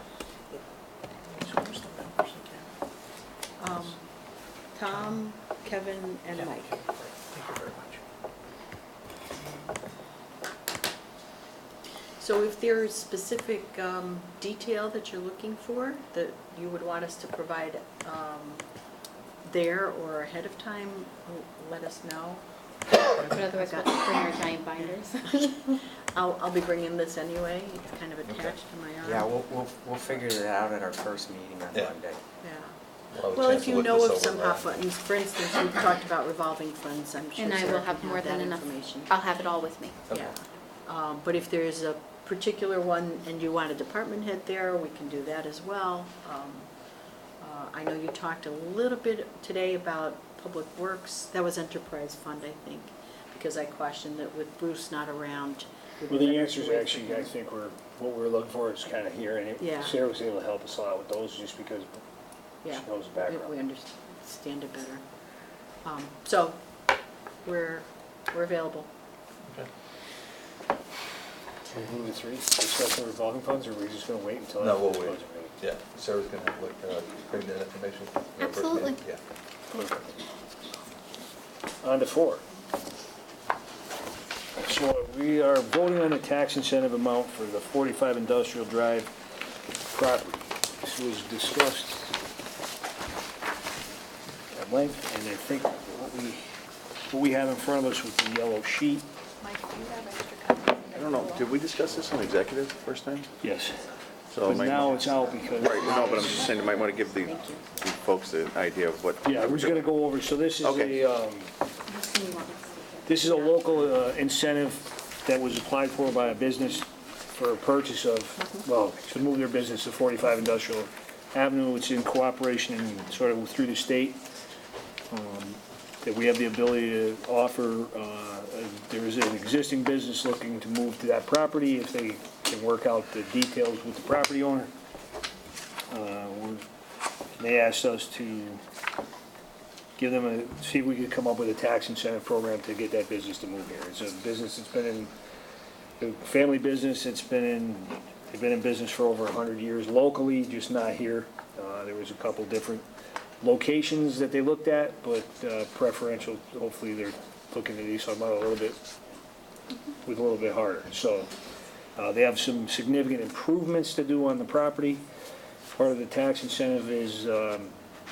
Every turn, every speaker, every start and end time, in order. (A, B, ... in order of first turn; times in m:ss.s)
0:01.3-0:02.6 A
0:03.6-0:04.0 B
0:04.7-0:06.8 B
0:04.9-0:05.1 A
0:06.3-0:08.0 A
0:12.2-0:18.7 B
0:19.4-0:22.4 B
0:22.9-0:25.8 C
0:23.1-0:24.5 B
0:26.1-0:29.3 B
0:28.2-0:28.5 D
0:29.0-0:32.2 E
0:32.4-0:32.7 B
0:33.1-0:34.8 D
0:33.3-0:39.1 B
0:37.4-0:40.0 C
0:40.1-0:40.3 D
0:40.1-0:46.7 B
0:47.4-0:57.3 B
0:56.1-1:02.0 F
0:59.6-1:00.0 B
1:02.6-1:05.0 B
1:02.6-1:03.5 F
1:05.8-1:06.6 B
1:07.4-1:08.9 B
1:11.7-1:15.5 F
1:14.6-1:19.2 D
1:18.4-1:19.0 C
1:19.7-1:20.0 F
1:21.8-1:22.4 F
1:24.6-1:29.1 F
1:29.9-1:32.1 F
1:34.5-1:36.4 F
1:37.1-1:39.0 F
1:39.4-1:42.1 B
1:40.9-1:43.3 G
1:43.4-1:43.9 F
1:44.3-1:49.9 G
1:44.4-1:46.6 F
1:45.9-1:47.7 B
1:49.2-1:51.5 F
1:51.8-1:53.7 C
1:53.0-2:04.2 F
2:05.1-2:14.7 F
2:15.9-2:16.6 F
2:17.4-2:18.6 F
2:20.0-2:25.1 F
2:26.0-2:32.8 F
2:33.4-2:38.8 F
2:40.0-2:41.3 F
2:42.0-2:45.0 F
2:45.7-2:47.7 F